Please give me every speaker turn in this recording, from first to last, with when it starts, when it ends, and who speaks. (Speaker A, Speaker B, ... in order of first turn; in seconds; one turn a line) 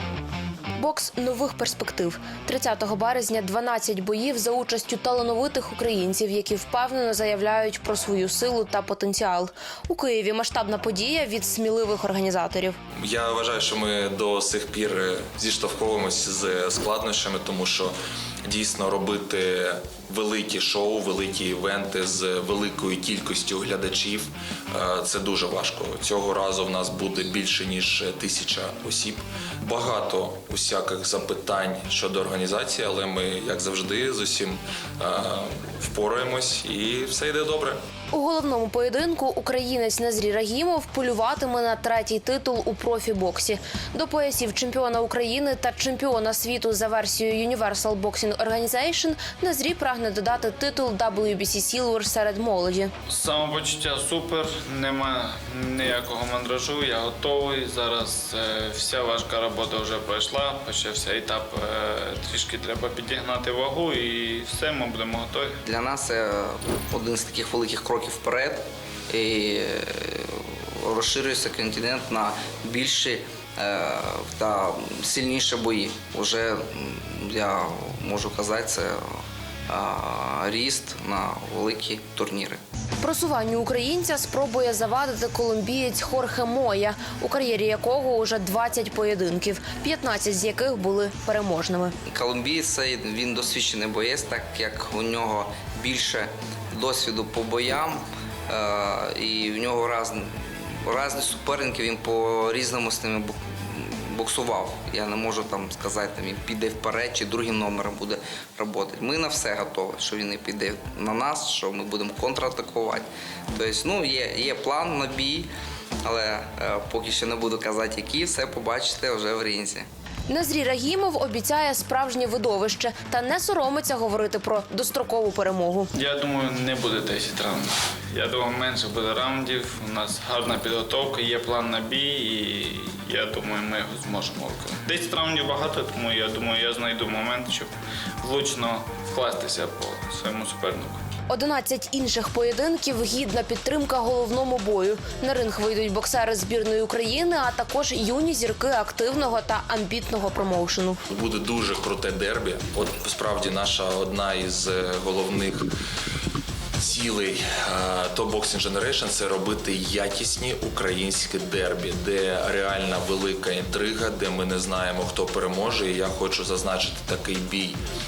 Speaker A: 0.8-12.8
Speaker B: 13.0-17.9
Speaker B: 18.4-37.8
Speaker A: 38.1-52.9
Speaker C: 53.1-65.6
Speaker D: 65.6-82.6
Speaker A: 83.0-92.0
Speaker D: 92.1-115.5
Speaker D: 116.0-119.9
Speaker A: 120.3-125.9
Speaker C: 125.9-141.0
Speaker A: 141.3-151.0
Speaker B: 151.1-155.7
Speaker B: 156.8-167.8